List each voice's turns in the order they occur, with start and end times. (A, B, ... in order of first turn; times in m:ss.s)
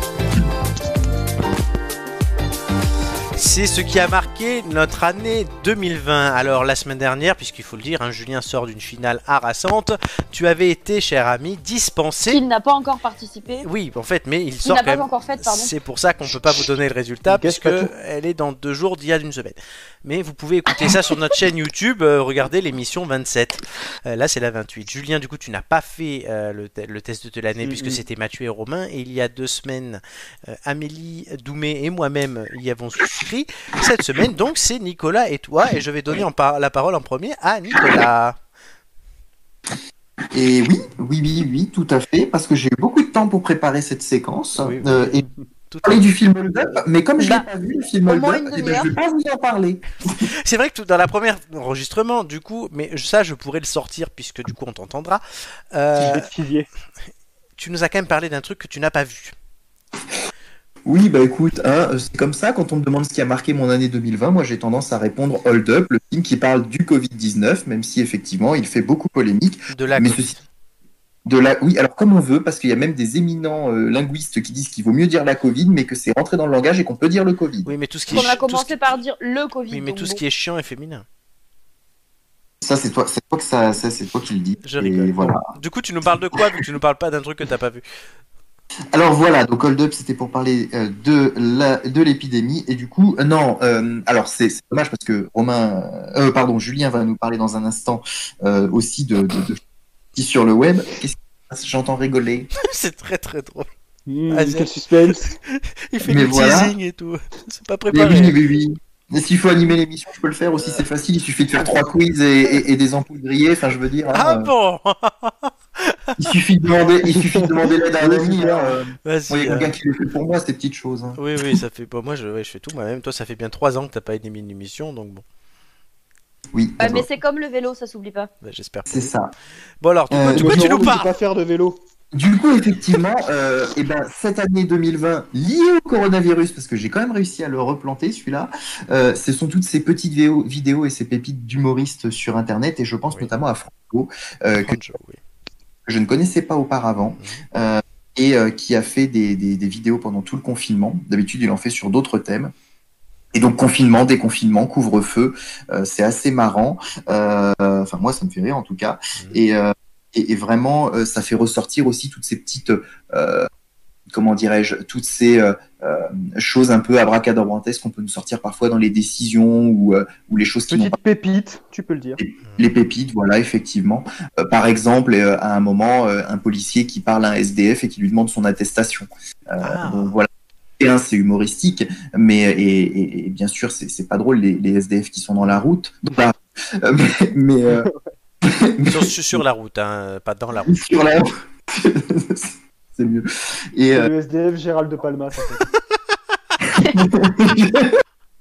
0:03.4-0:12.4 A
0:12.3-0:13.7 B
0:13.6-0:38.4 A
0:14.6-0:15.7 B
0:17.3-0:17.9 C
0:27.6-0:28.0 C
0:40.3-0:45.3 D
0:44.6-0:45.0 A
0:45.7-0:46.1 A
0:45.8-0:50.2 D
0:47.2-0:47.4 B
0:48.1-0:48.9 B
0:50.4-0:56.3 A
0:56.0-0:56.7 C
0:57.6-0:59.3 A
1:00.9-1:10.3 D
1:09.7-1:10.4 A
1:11.3-1:17.7 D
1:17.7-1:18.9 A
1:18.1-1:20.2 B
1:19.7-1:21.0 A
1:22.6-1:25.4 D
1:24.6-1:27.8 A
1:28.9-1:39.6 D
1:40.2-1:42.5 D
1:42.6-1:43.7 A
1:44.1-1:45.3 C
1:44.3-1:48.4 A
1:46.0-1:46.8 D
1:47.9-1:54.5 D
1:50.6-1:50.8 A
1:54.1-1:56.3 A
1:56.2-2:01.2 D
1:57.1-1:58.7 C
1:59.0-1:59.7 A
2:01.2-2:05.2 A
2:06.5-2:07.1 D
2:06.8-2:08.3 B
2:08.4-2:09.1 A
2:08.9-2:09.3 D
2:09.8-2:11.1 A
2:10.1-2:11.0 D
2:10.3-2:11.8 C
2:12.1-2:24.8 D
2:24.6-2:25.2 A
2:25.9-2:32.5 D
2:33.3-2:43.5 D
2:44.1-2:51.0 D
2:50.7-2:52.2 C
2:52.2-3:00.3 D
2:59.6-3:00.2 A
3:00.8-3:07.9 D
3:07.7-3:08.0 C
3:08.4-3:09.4 D
3:08.9-3:10.8 A
3:10.7-3:14.1 D
3:13.9-3:15.6 C
3:16.7-3:18.0 D